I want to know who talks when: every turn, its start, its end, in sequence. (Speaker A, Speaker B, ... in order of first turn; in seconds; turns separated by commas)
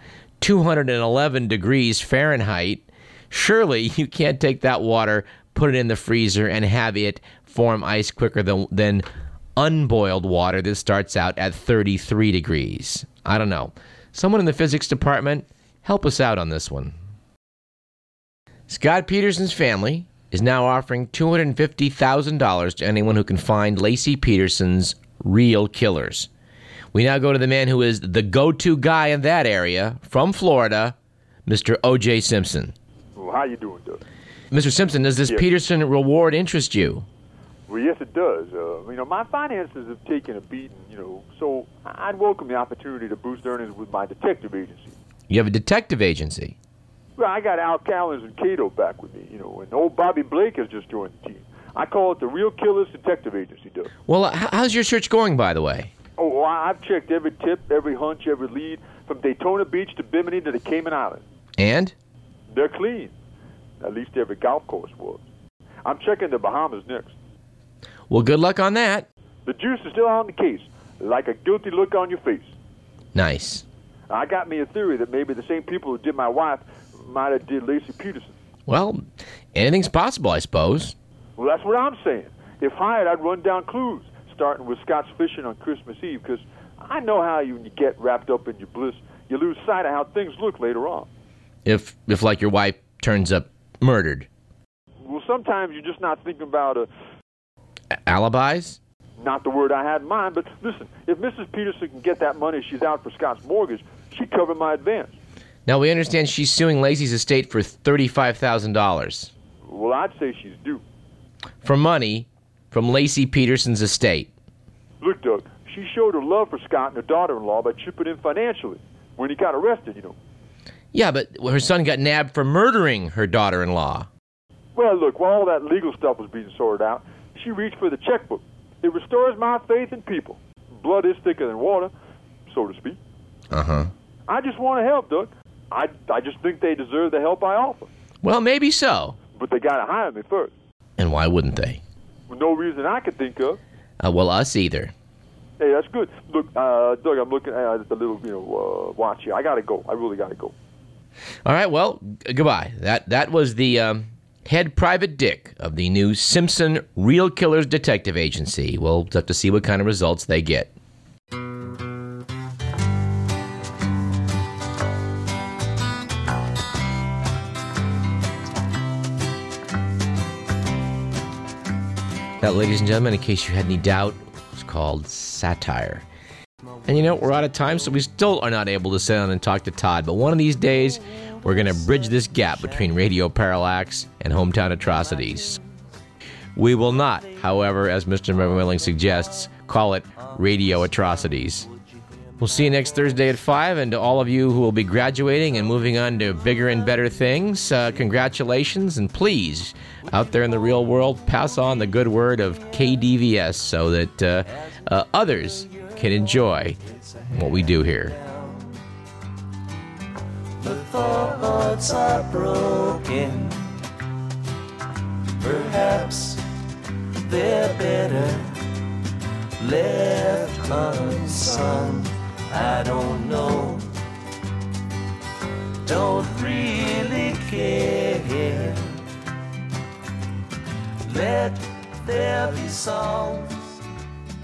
Speaker A: 0.4-9.1, Speaker A: 9.6-16.9, Speaker A: 18.7-26.3, Speaker A: 26.9-30.9, Speaker A: 31.5-32.7, Speaker B: 33.2-34.0, Speaker A: 34.5-37.1, Speaker B: 37.7-45.0, Speaker A: 45.3-46.6, Speaker B: 47.2-53.9, Speaker A: 54.1-55.9, Speaker B: 56.2-61.2, Speaker A: 61.6-61.9, Speaker B: 62.5-63.1, Speaker B: 63.8-65.2, Speaker B: 65.8-67.1, Speaker A: 68.1-69.1, Speaker B: 69.4-72.5, Speaker A: 73.1-73.6, Speaker B: 74.1-78.3, Speaker A: 78.7-79.0, Speaker A: 79.5-80.9, Speaker B: 81.4-91.1, Speaker A: 91.6-94.3, Speaker B: 95.0-96.9, Speaker A: 98.1-98.8, Speaker B: 99.2-105.2, Speaker A: 105.7-109.3, Speaker B: 109.7-110.8, Speaker A: 111.6-114.3, Speaker B: 115.0-120.2, Speaker A: 120.9-124.1, Speaker B: 124.8-131.9, Speaker B: 132.4-133.0, Speaker A: 133.5-133.9, Speaker B: 134.3-137.9, Speaker A: 138.2-139.2, Speaker B: 139.4-140.5, Speaker A: 141.0-141.8, Speaker B: 142.3-143.6, Speaker A: 144.0-144.9, Speaker B: 145.6-150.5, Speaker A: 151.4-160.7, Speaker A: 172.4-176.1, Speaker A: 176.8-185.6, Speaker A: 186.6-191.7, Speaker A: 192.4-208.2, Speaker C: 210.6-213.7, Speaker C: 215.4-216.4, Speaker C: 217.2-218.7, Speaker C: 219.6-223.9, Speaker C: 225.8-229.0, Speaker C: 231.0-233.8